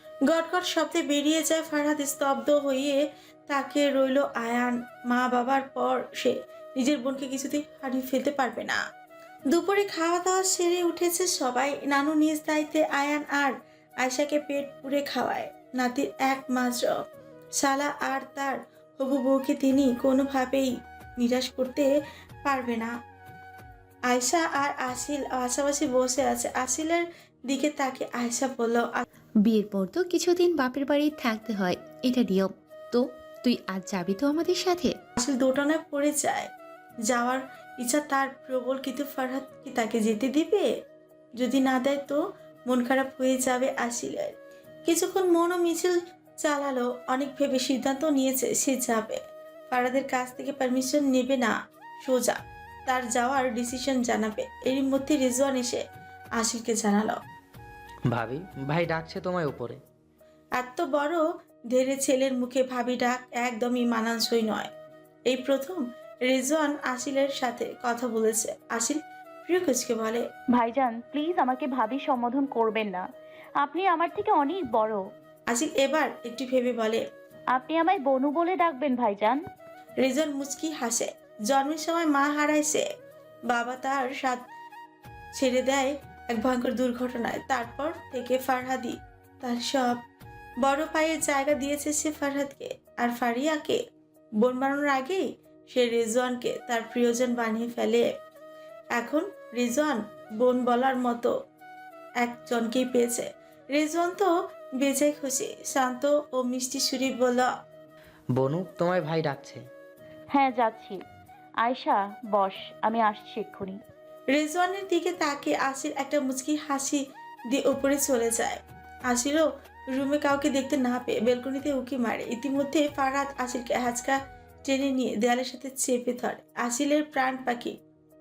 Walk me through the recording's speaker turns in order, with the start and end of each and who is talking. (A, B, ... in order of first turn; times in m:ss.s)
0:00.3-0:08.8 A
0:09.5-0:17.0 A
0:17.6-0:21.9 A
0:22.4-0:22.9 A
0:24.1-0:29.0 A
0:29.4-0:34.9 B
0:35.2-0:36.5 A
0:37.0-0:40.7 A
0:41.4-0:44.3 A
0:44.9-0:55.8 A
0:56.4-0:57.2 A
0:58.1-0:59.8 C
1:00.6-1:04.7 A
1:05.3-1:10.2 A
1:10.5-1:13.0 D
1:13.6-1:15.0 D
1:15.5-1:17.0 A
1:17.5-1:19.4 D
1:20.0-1:22.8 A
1:23.5-1:24.4 A
1:25.3-1:30.0 A
1:30.6-1:33.8 A
1:34.4-1:38.1 A
1:39.0-1:41.3 A
1:42.2-1:47.5 A
1:48.3-1:49.6 C
1:50.3-1:51.0 D
1:51.6-1:53.8 D
1:54.3-2:07.8 A